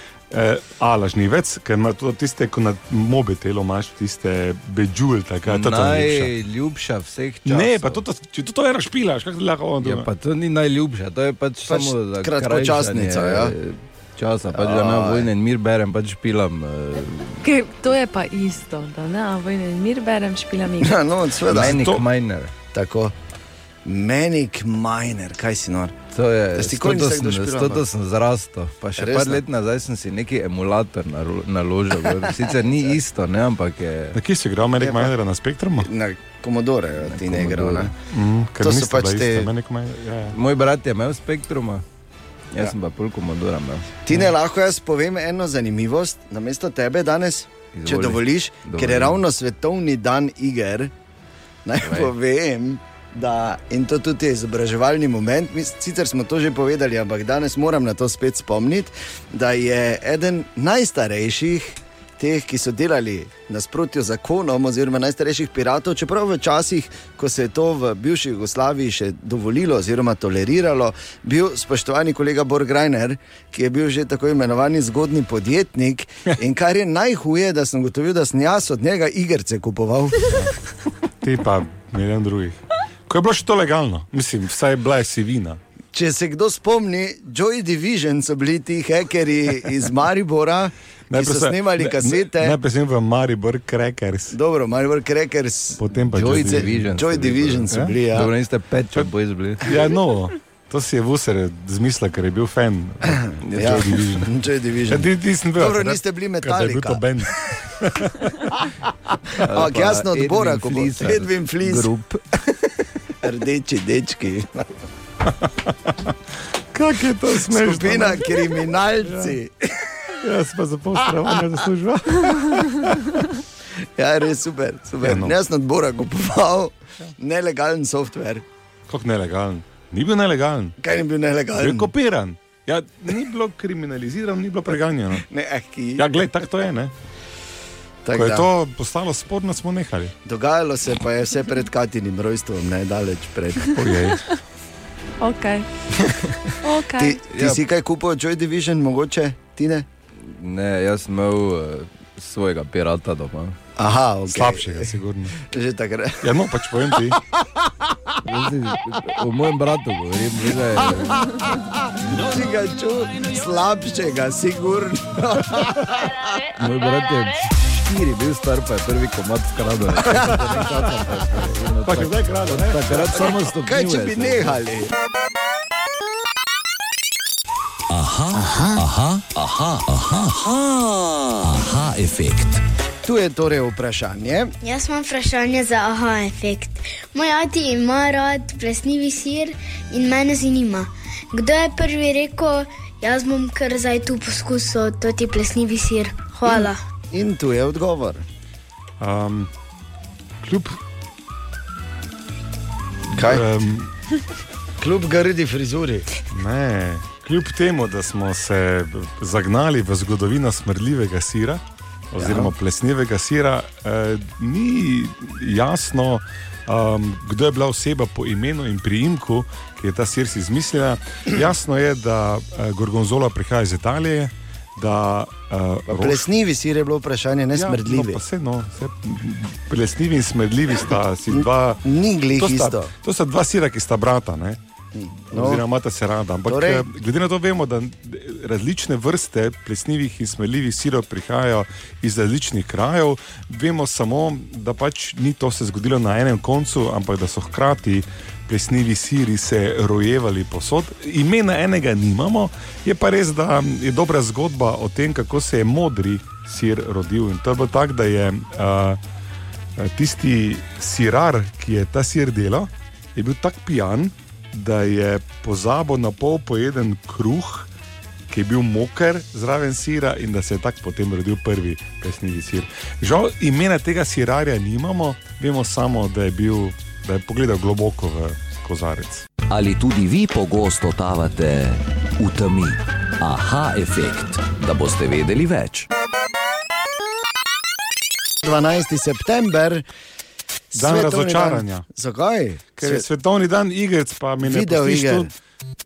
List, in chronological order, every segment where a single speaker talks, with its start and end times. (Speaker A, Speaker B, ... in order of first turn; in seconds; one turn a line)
Speaker A: 0.3-6.3
Speaker B: 5.5-8.0
Speaker A: 7.4-10.1
Speaker B: 9.8-17.4
Speaker C: 11.7-13.6
Speaker C: 14.5-15.3
Speaker D: 17.4-21.0
Speaker C: 20.8-21.8
Speaker B: 21.5-22.5
Speaker A: 21.6-22.0
Speaker C: 22.7-23.1
Speaker C: 23.8-25.9
Speaker B: 26.1-34.2
Speaker C: 26.5-27.8
Speaker C: 29.0-29.4
Speaker C: 32.3-32.9
Speaker A: 34.1-35.9
Speaker C: 34.8-35.1
Speaker C: 35.8-37.9
Speaker B: 37.1-37.9
Speaker A: 38.0-40.4
Speaker C: 38.6-39.5
Speaker B: 40.3-41.8
Speaker B: 42.5-44.0
Speaker C: 44.0-50.9
Speaker B: 47.7-49.2
Speaker C: 51.6-80.3
Speaker B: 51.8-52.1
Speaker A: 81.2-85.6
Speaker C: 85.9-92.6
Speaker A: 91.1-94.3
Speaker C: 94.3-98.3
Speaker A: 95.8-96.8
Speaker B: 96.1-99.7
Speaker A: 99.6-104.3
Speaker C: 103.2-107.0
Speaker B: 103.5-103.8
Speaker A: 104.9-108.3
Speaker B: 109.5-112.2
Speaker C: 109.5-111.9
Speaker C: 113.2-114.7
Speaker A: 116.7-118.3
Speaker C: 117.5-119.9
Speaker A: 119.0-119.3
Speaker A: 120.2-123.0
Speaker C: 124.0-128.4
Speaker A: 125.0-125.4
Speaker A: 128.9-130.8
Speaker C: 130.8-131.9
Speaker A: 131.6-135.2
Speaker C: 135.2-136.1
Speaker A: 136.0-136.9
Speaker C: 138.0-138.5
Speaker A: 138.1-140.1
Speaker C: 140.2-143.7
Speaker A: 143.7-144.2
Speaker D: 145.2-145.7
Speaker D: 146.6-147.2
Speaker C: 146.9-149.9
Speaker B: 147.3-147.6
Speaker B: 150.2-153.6
Speaker C: 153.8-156.3
Speaker A: 154.3-155.3
Speaker A: 156.2-157.2
Speaker B: 158.2-161.2
Speaker C: 161.6-166.4
Speaker B: 166.6-174.6
Speaker C: 170.1-170.5
Speaker A: 171.8-173.3
Speaker C: 173.1-174.9
Speaker E: 177.9-182.6
Speaker C: 183.0-184.5
Speaker F: 184.6-196.8
Speaker C: 197.1-198.2
Speaker A: 199.0-199.5
Speaker A: 200.4-200.8
Speaker C: 203.1-203.4
Speaker A: 203.2-203.9
Speaker C: 204.8-206.1
Speaker A: 206.3-226.2
Speaker C: 212.2-212.5
Speaker C: 225.9-228.2
Speaker A: 227.5-231.8
Speaker C: 231.3-232.9
Speaker A: 232.4-234.6
Speaker C: 234.9-235.6
Speaker A: 235.3-259.0
Speaker C: 236.5-236.8
Speaker A: 259.8-267.7
Speaker A: 268.3-279.3
Speaker E: 279.5-285.9
Speaker C: 288.4-289.8
Speaker C: 290.7-293.1
Speaker A: 290.7-291.8
Speaker A: 292.8-295.3
Speaker C: 294.4-295.3